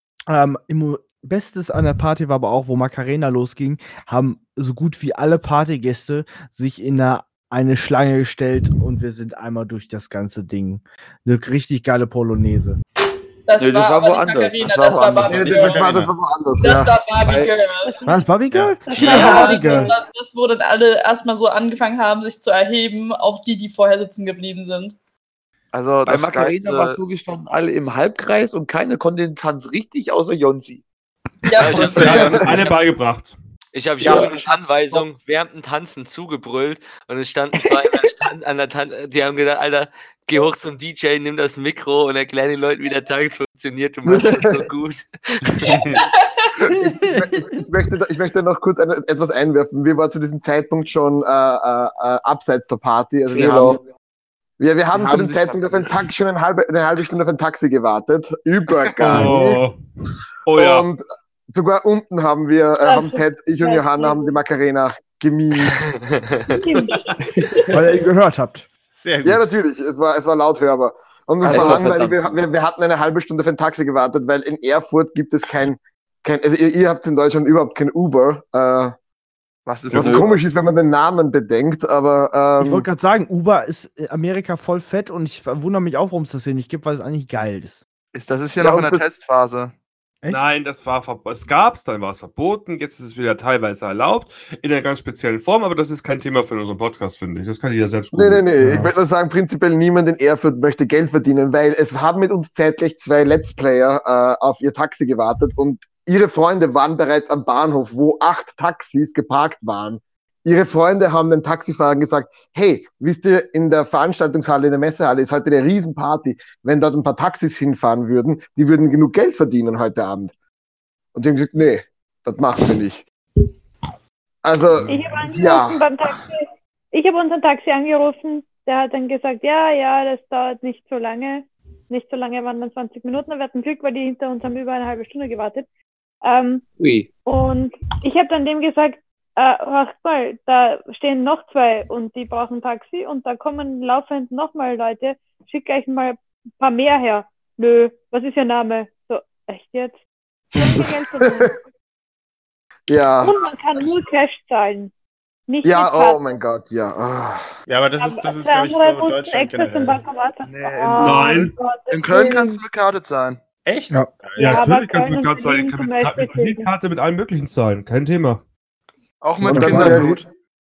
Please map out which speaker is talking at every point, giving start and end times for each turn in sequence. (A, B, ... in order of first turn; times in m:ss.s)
0:00.3-0:12.8 A
0:13.5-0:15.8 B
0:13.6-0:15.3 C
0:14.6-0:16.0 D
0:15.3-0:16.9 E
0:15.3-0:16.1 F
0:16.6-0:17.9 B
0:17.2-0:17.5 C
0:17.8-0:18.2 G
0:18.0-0:19.9 A
0:18.5-0:19.2 F
0:18.8-0:20.0 G
0:19.0-0:24.9 B
0:25.7-0:27.0 D
0:26.1-0:30.8 C
0:31.4-0:32.7 B
0:31.6-0:32.6 H
0:31.6-0:32.6 F
0:31.8-0:33.4 I
0:33.7-0:45.8 H
0:34.0-0:34.4 C
0:34.0-0:35.2 D
0:44.0-0:44.6 E
0:45.6-0:46.0 F
0:46.6-0:47.4 F
0:46.8-0:53.8 E
0:53.3-0:53.8 C
0:54.6-0:59.6 E
0:54.9-0:55.9 D
0:59.0-0:59.8 I
1:00.4-1:00.8 I
1:00.5-1:06.0 E
1:02.8-1:04.4 G
1:06.5-1:07.2 G
1:07.7-1:08.6 A
1:08.9-1:09.4 F
1:09.2-1:18.9 E
1:11.4-1:12.2 C
1:11.4-1:11.8 H
1:11.5-1:11.8 D
1:19.6-1:20.3 D
1:19.9-1:20.3 C
1:19.9-1:22.9 E
1:22.6-1:27.8 A
1:28.1-1:29.7 D
1:28.6-1:29.0 E
1:30.2-1:38.5 I
1:38.1-2:00.3 E
1:38.6-1:38.9 A
2:01.1-2:03.0 E
2:04.4-2:05.8 E
2:04.9-2:15.6 G
2:16.2-2:16.6 G
2:16.8-2:17.1 C
2:17.2-2:30.0 G
2:30.5-2:31.6 G
2:30.7-2:31.5 E
2:32.9-2:33.3 E
2:33.2-2:34.9 G
2:35.5-2:36.2 G
2:35.6-2:37.5 E
2:37.7-2:40.0 F
2:38.0-2:42.6 G
2:40.4-2:43.4 D
2:41.0-2:41.5 I
2:43.6-2:44.7 F
2:44.4-2:46.7 G
2:44.4-2:48.4 I
2:49.2-2:50.3 D
2:49.4-2:50.2 E
2:49.5-2:50.0 A